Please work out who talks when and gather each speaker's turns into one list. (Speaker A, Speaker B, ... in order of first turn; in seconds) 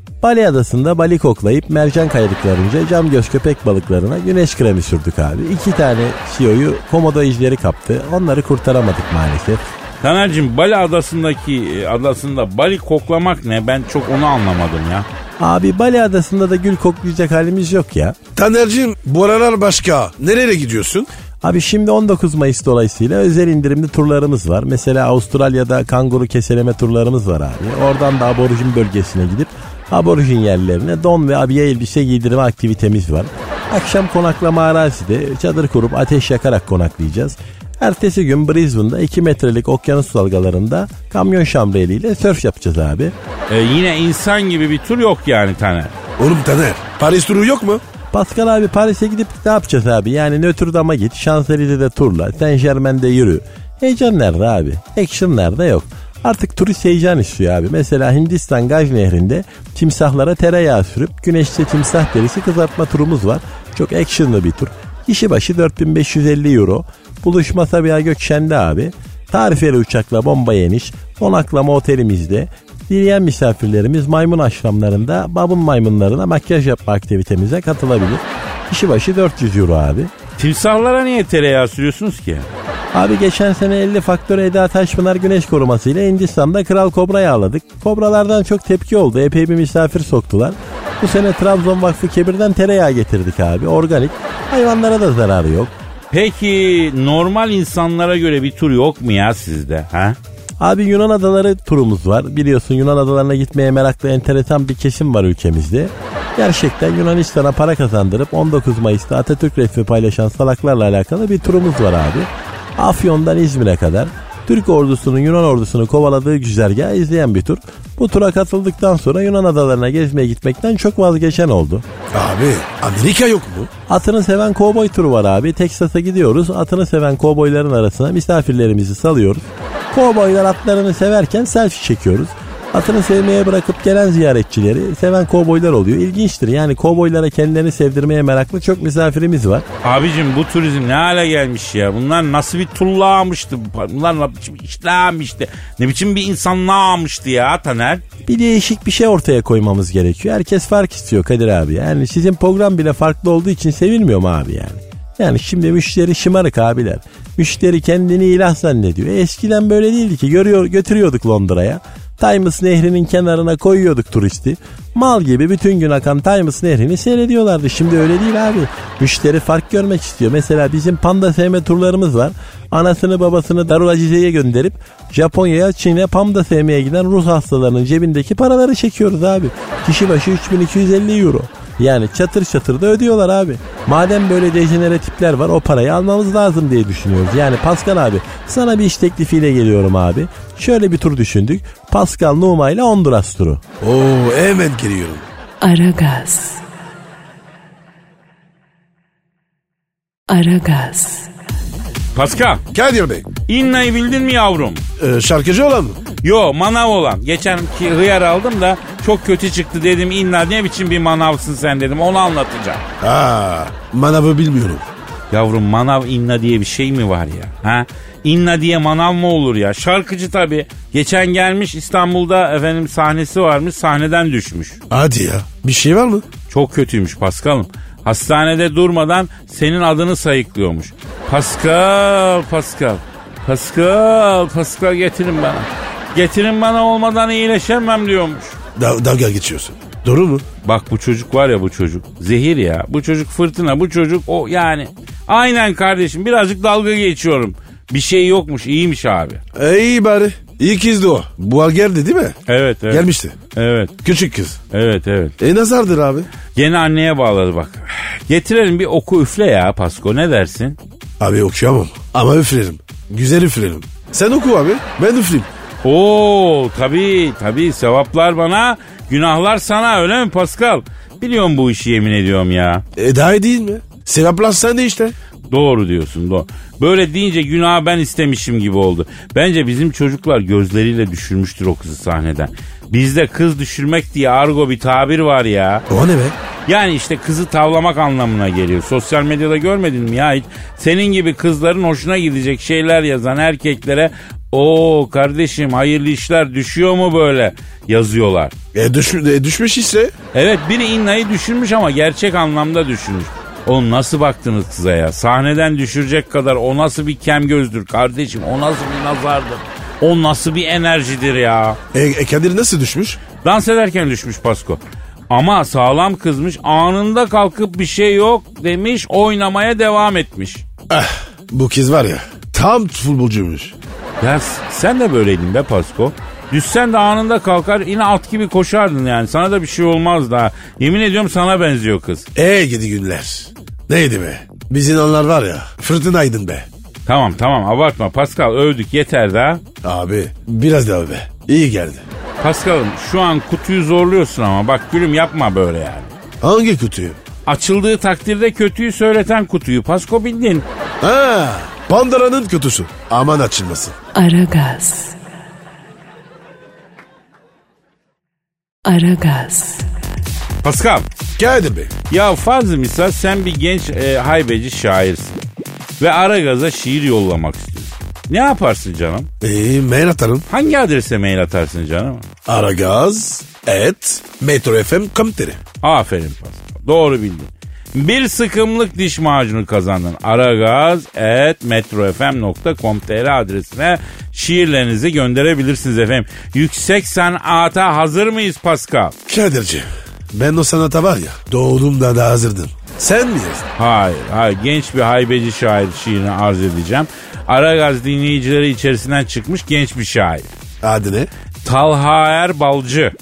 Speaker A: 0.2-9.6, 15.4-18.2, 21.4-43.1, 48.1-80.1, 82.9-95.7, 100.6-121.8, 123.9-139.7, 148.2-193.6
Speaker B: 10.0-15.1, 43.5-45.9, 80.4-82.5, 96.1-100.2, 139.8-148.0, 202.1-202.6, 203.5-204.8, 206.2-212.8, 215.3-224.8, 226.5-238.6, 240.6-249.4, 252.5-253.9, 254.7-255.3, 256.5-260.8, 265.8-272.8, 275.5-285.8, 286.6-298.5, 300.3-311.8, 313.4-320.6, 324.2-332.3, 337.1-339.6, 342.4-346.1, 347.4-350.6, 360.6-361.1, 362.1-365.4, 366.0-369.3, 370.5-372.2, 375.8-389.1, 393.8-400.5, 401.6-403.1
Speaker C: 18.4-21.1, 46.2-47.8, 122.1-123.7, 193.8-195.2, 202.7-203.3, 205.0-206.0, 213.0-214.8, 224.9-226.2, 238.8-240.4, 249.5-252.4, 252.9-253.3, 254.0-254.6, 255.4-256.3, 261.2-265.5, 273.0-275.1, 285.9-286.4, 298.7-300.1, 311.9-313.2, 320.9-323.8, 332.3-336.7, 339.8-342.0, 346.4-347.2, 351.0-353.9, 361.4-361.9, 369.4-370.5, 372.4-375.6, 389.3-393.7, 400.8-401.3
Speaker D: 195.6-196.6, 200.3-201.3, 354.1-355.2, 358.8-359.9